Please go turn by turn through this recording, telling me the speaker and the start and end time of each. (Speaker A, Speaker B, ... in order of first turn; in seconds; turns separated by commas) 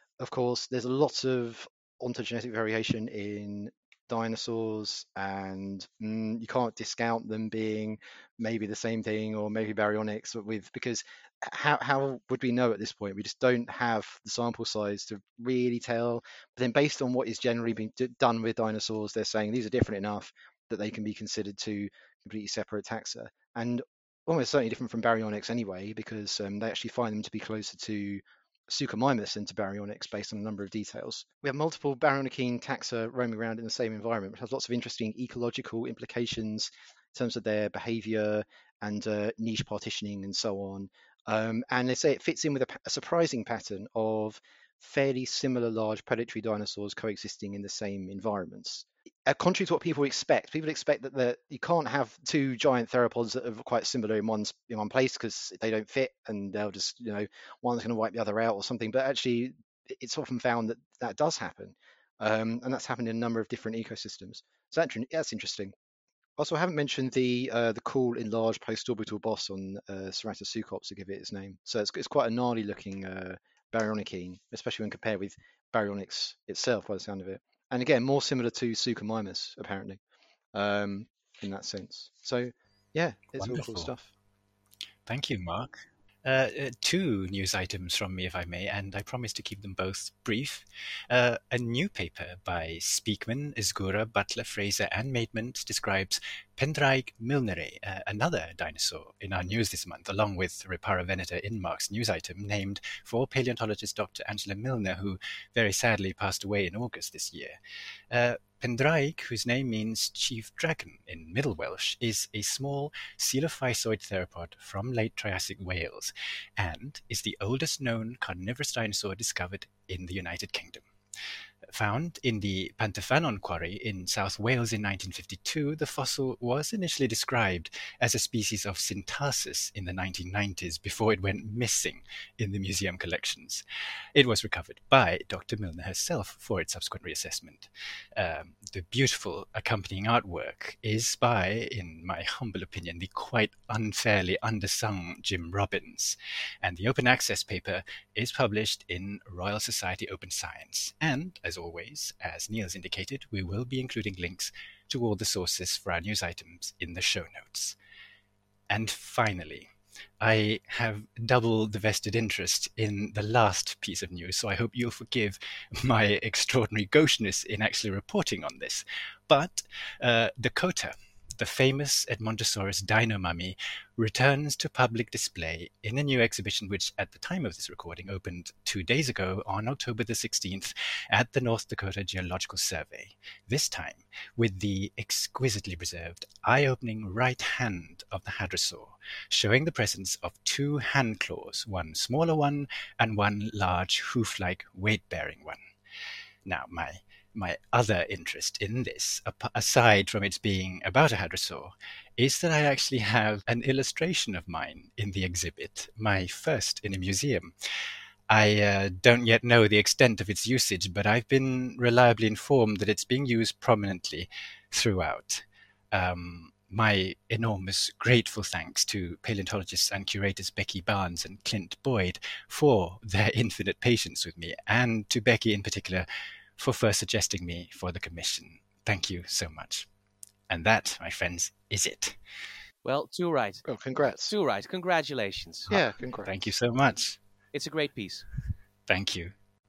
Speaker A: 0.2-65.7, Speaker A: 66.4-80.0, Speaker A: 80.5-84.1, Speaker B: 83.4-83.9, Speaker B: 85.1-107.6, Speaker B: 108.1-120.8, Speaker B: 121.7-133.6, Speaker B: 134.2-157.8, Speaker B: 158.7-159.7, Speaker B: 160.2-195.6, Speaker B: 196.4-207.5, Speaker B: 208.3-226.1, Speaker B: 226.6-229.9, Speaker B: 230.5-232.2, Speaker C: 232.8-233.7, Speaker A: 233.7-234.3, Speaker C: 234.3-235.7, Speaker A: 235.7-236.3, Speaker B: 236.2-237.2, Speaker C: 237.5-238.2, Speaker B: 238.9-239.3